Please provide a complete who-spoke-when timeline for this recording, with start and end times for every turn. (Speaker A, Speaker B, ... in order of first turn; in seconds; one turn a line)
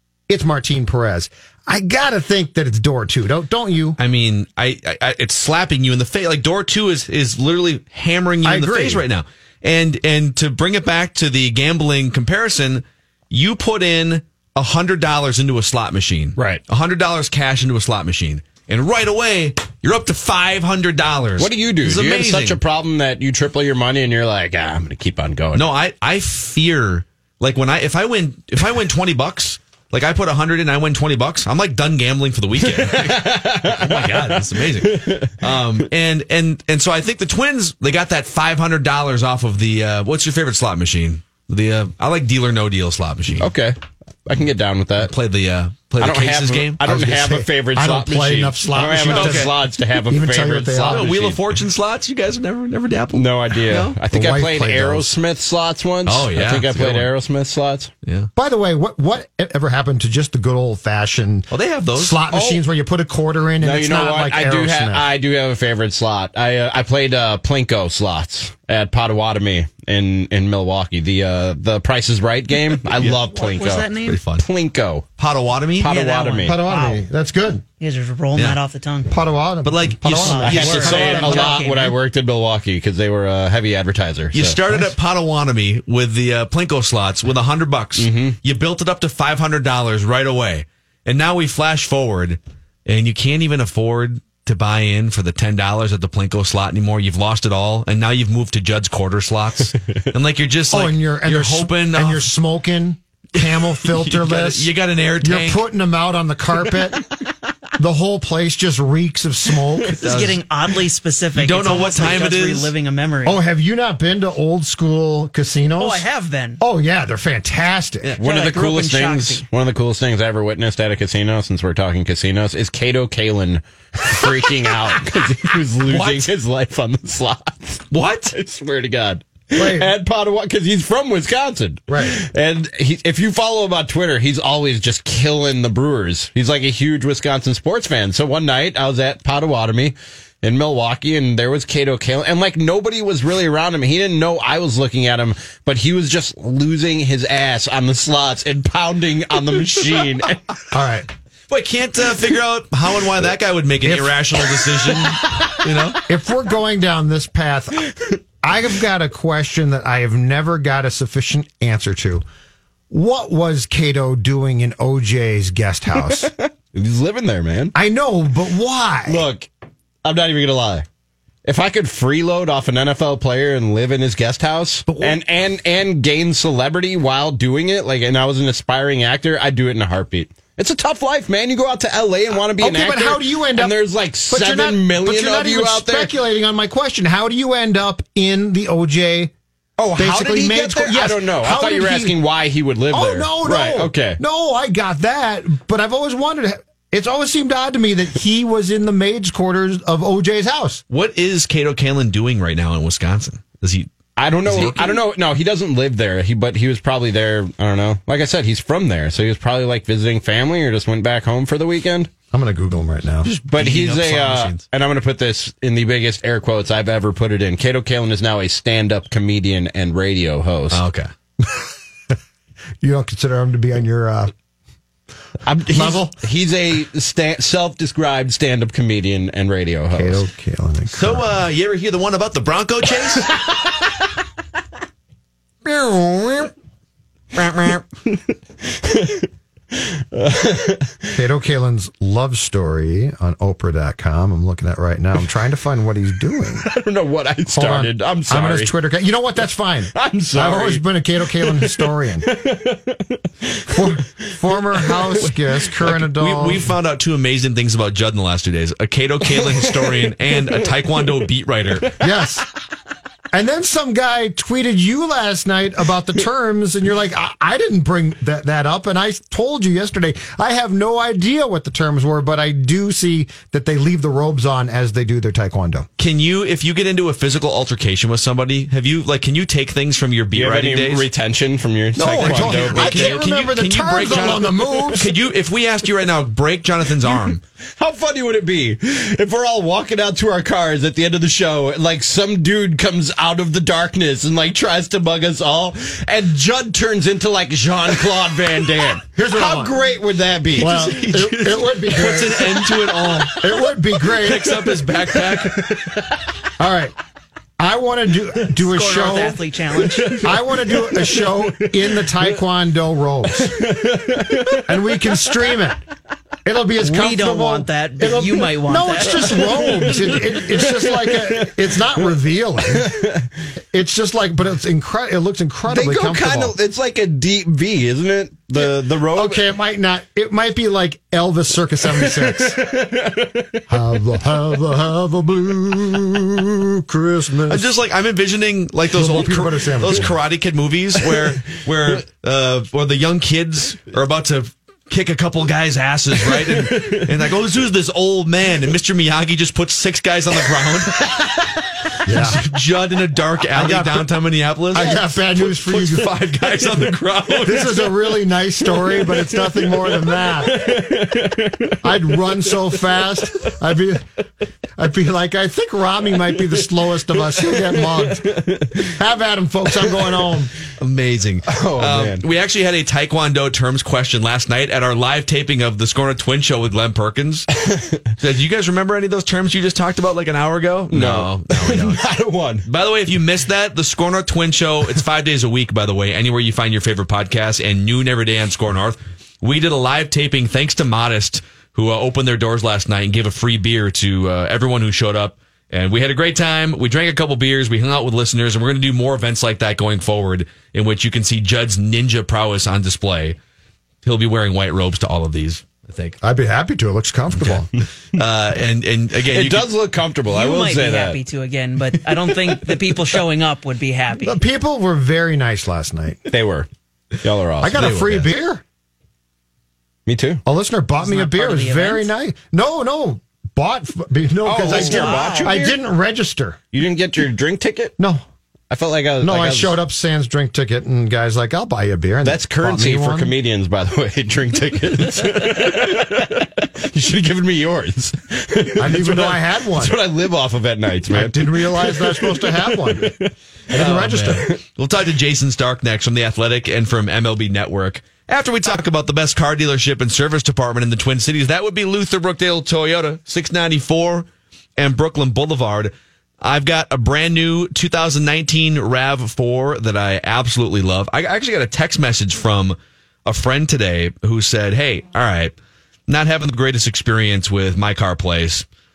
Speaker A: 0.3-4.0
Speaker B: 4.0-22.6
Speaker A: 8.4-9.0
Speaker C: 21.4-25.7
Speaker B: 25.5-43.5
Speaker C: 32.6-35.5
Speaker C: 43.4-45.1
Speaker B: 45.0-47.2
Speaker C: 46.0-51.4
Speaker A: 46.8-49.5
Speaker B: 49.0-49.5
Speaker A: 50.1-51.1
Speaker B: 50.8-54.0
Speaker C: 53.1-57.9
Speaker A: 54.1-55.2
Speaker B: 56.0-57.1
Speaker A: 58.4-65.1
Speaker B: 61.5-62.2
Speaker C: 62.3-62.6
Speaker C: 63.6-75.1
Speaker D: 73.3-74.2
Speaker B: 74.0-74.4
Speaker B: 75.2-75.9
Speaker C: 75.8-76.6
Speaker D: 75.9-77.0
Speaker A: 76.4-77.6
Speaker D: 77.8-79.1
Speaker A: 79.1-81.7
Speaker B: 79.6-81.0
Speaker D: 80.2-82.0
Speaker C: 80.4-84.8
Speaker B: 84.3-102.3
Speaker C: 88.0-88.4
Speaker A: 100.7-104.7
Speaker B: 103.4-105.6
Speaker A: 105.2-107.0
Speaker A: 107.8-110.0
Speaker D: 110.0-113.4
Speaker B: 110.0-110.4
Speaker B: 111.3-112.7
Speaker A: 113.2-116.0
Speaker D: 115.8-116.6
Speaker A: 116.6-118.2
Speaker C: 118.2-150.4
Speaker D: 118.2-119.4
Speaker B: 125.8-126.3
Speaker B: 127.9-128.3
Speaker A: 129.5-129.9
Speaker A: 131.9-132.2
Speaker A: 150.7-151.1
Speaker B: 151.5-156.0
Speaker A: 153.8-154.2
Speaker C: 154.5-155.9
Speaker A: 156.1-157.9
Speaker A: 158.4-162.2
Speaker A: 162.9-166.3
Speaker C: 166.1-167.7
Speaker A: 167.7-169.2
Speaker C: 169.1-169.5
Speaker C: 170.0-170.8
Speaker C: 171.4-186.1
Speaker A: 174.9-175.2
Speaker A: 182.4-183.8
Speaker A: 184.3-189.3
Speaker C: 189.8-194.2
Speaker A: 190.0-192.2
Speaker A: 192.9-200.8
Speaker B: 200.9-203.9
Speaker C: 204.2-212.1
Speaker B: 204.4-205.0
Speaker A: 212.3-213.3
Speaker C: 213.2-220.8
Speaker B: 213.6-214.6
Speaker B: 220.7-221.1
Speaker A: 222.8-224.3
Speaker C: 225.4-230.2
Speaker A: 225.7-226.1
Speaker A: 229.9-231.3
Speaker B: 230.9-233.3
Speaker C: 235.7-236.5
Speaker C: 237.4-241.2
Speaker A: 241.1-246.7
Speaker C: 246.6-248.7
Speaker A: 247.5-252.3
Speaker C: 249.9-255.8
Speaker A: 253.7-256.6
Speaker B: 256.1-261.9
Speaker C: 259.2-261.2
Speaker C: 261.8-262.1
Speaker A: 262.0-262.4
Speaker A: 263.3-275.9
Speaker B: 276.0-281.1
Speaker C: 280.3-283.2
Speaker B: 281.9-287.4
Speaker A: 282.0-285.1
Speaker C: 284.0-284.4
Speaker C: 287.0-300.9
Speaker A: 299.1-299.9
Speaker B: 300.6-303.6
Speaker A: 300.6-304.6
Speaker B: 304.2-305.6
Speaker C: 305.4-306.0
Speaker A: 306.6-306.9
Speaker A: 307.6-309.4
Speaker D: 308.6-310.1
Speaker C: 309.8-312.1
Speaker A: 310.2-313.7
Speaker C: 313.4-314.7
Speaker A: 314.6-315.8
Speaker A: 316.4-322.9
Speaker D: 316.8-319.6
Speaker C: 319.1-321.7
Speaker C: 322.7-323.3
Speaker A: 323.7-326.5
Speaker C: 325.7-329.4
Speaker A: 328.6-332.6
Speaker C: 332.0-333.6
Speaker A: 333.7-337.7
Speaker B: 337.5-351.0
Speaker A: 338.9-340.1
Speaker C: 346.3-347.1
Speaker C: 351.0-351.3
Speaker A: 352.1-352.4
Speaker B: 352.1-357.9
Speaker A: 353.5-354.1
Speaker A: 354.7-356.1
Speaker C: 354.7-355.0
Speaker A: 357.4-360.9
Speaker C: 358.8-362.5
Speaker A: 361.8-364.1
Speaker A: 364.8-370.5
Speaker C: 367.4-368.9
Speaker B: 370.8-377.5
Speaker C: 371.5-372.2
Speaker B: 378.2-382.1
Speaker C: 380.9-382.6
Speaker B: 382.6-403.4
Speaker B: 404.0-406.2
Speaker A: 406.2-407.7
Speaker B: 408.1-409.7
Speaker C: 409.3-411.2
Speaker D: 410.3-414.4
Speaker C: 412.0-412.8
Speaker A: 414.2-416.2
Speaker C: 416.3-416.7
Speaker C: 417.2-418.0
Speaker A: 417.6-418.6
Speaker B: 417.8-418.3
Speaker C: 420.1-420.4
Speaker A: 420.4-426.6
Speaker D: 421.0-422.1
Speaker C: 424.4-425.8
Speaker D: 424.7-425.5
Speaker C: 426.7-427.9
Speaker A: 428.0-428.2
Speaker C: 428.7-429.8
Speaker A: 429.2-433.3
Speaker C: 432.2-443.8
Speaker A: 438.8-439.9
Speaker A: 441.1-443.1
Speaker A: 443.7-444.6
Speaker B: 443.8-465.5
Speaker B: 466.1-468.6